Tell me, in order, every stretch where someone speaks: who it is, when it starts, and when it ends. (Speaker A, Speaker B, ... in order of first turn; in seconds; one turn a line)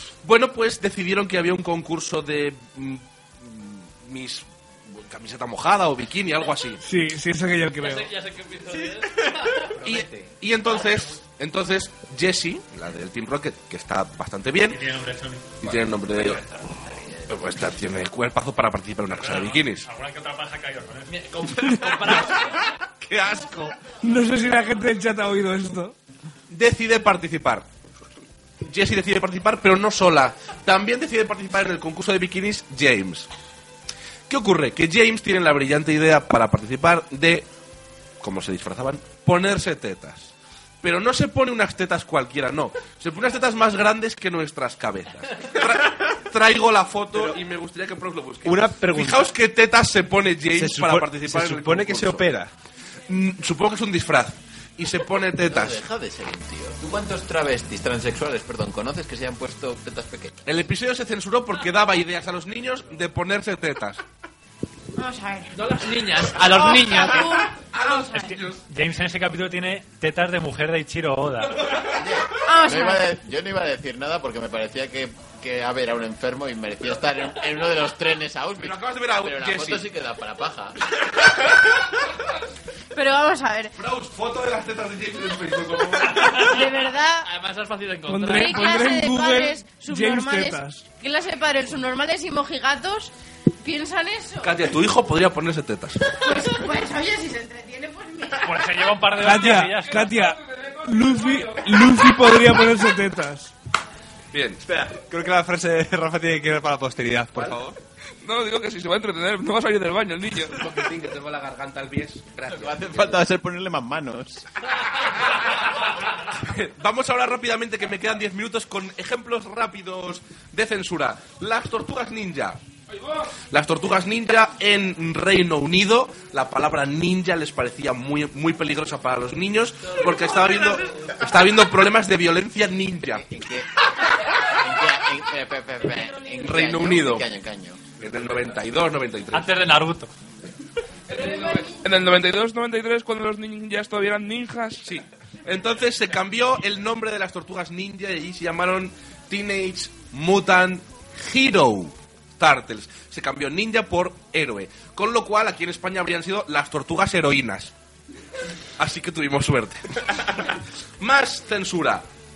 Speaker A: 0.2-6.8
Speaker B: 6.8-8.1
Speaker C: 7.8-9.7
Speaker A: 9.8-14.8
Speaker D: 14.7-15.6
Speaker A: 15.6-16.4
Speaker A: 17.3-19.9
Speaker D: 19.1-21.2
Speaker C: 21.1-22.7
Speaker B: 21.5-22.1
Speaker A: 22.1-23.8
Speaker B: 24.0-25.9
Speaker A: 26.5-27.6
Speaker A: 28.6-33.3
Speaker A: 34.3-37.4
Speaker A: 38.2-52.3
Speaker E: 48.4-49.3
Speaker E: 50.5-52.5
Speaker A: 53.1-55.8
Speaker F: 55.4-60.4
Speaker A: 60.5-64.0
Speaker G: 65.0-65.5
Speaker C: 65.5-67.4
Speaker G: 66.5-67.6
Speaker A: 67.5-68.6
Speaker D: 68.2-71.7
Speaker F: 71.8-80.8
Speaker G: 72.4-73.1
Speaker A: 78.6-79.8
Speaker G: 82.9-83.7
Speaker A: 83.8-86.6
Speaker G: 86.3-87.3
Speaker C: 87.2-88.7
Speaker B: 88.1-90.8
Speaker G: 88.3-94.5
Speaker A: 94.4-96.1
Speaker G: 96.2-98.7
Speaker D: 98.4-100.1
Speaker B: 99.2-103.5
Speaker H: 99.9-102.1
Speaker A: 104.3-104.6
Speaker E: 104.7-107.8
Speaker A: 107.3-107.6
Speaker H: 108.2-110.6
Speaker A: 110.5-113.2
Speaker F: 112.5-114.5
Speaker A: 115.0-122.6
Speaker H: 122.9-123.2
Speaker A: 123.5-133.2
Speaker F: 133.1-133.7
Speaker F: 134.4-137.8
Speaker G: 136.0-136.3
Speaker A: 136.3-137.3
Speaker A: 138.0-139.5
Speaker D: 139.3-140.1
Speaker H: 141.1-144.9
Speaker G: 141.2-141.8
Speaker A: 144.8-157.7
Speaker A: 158.8-162.1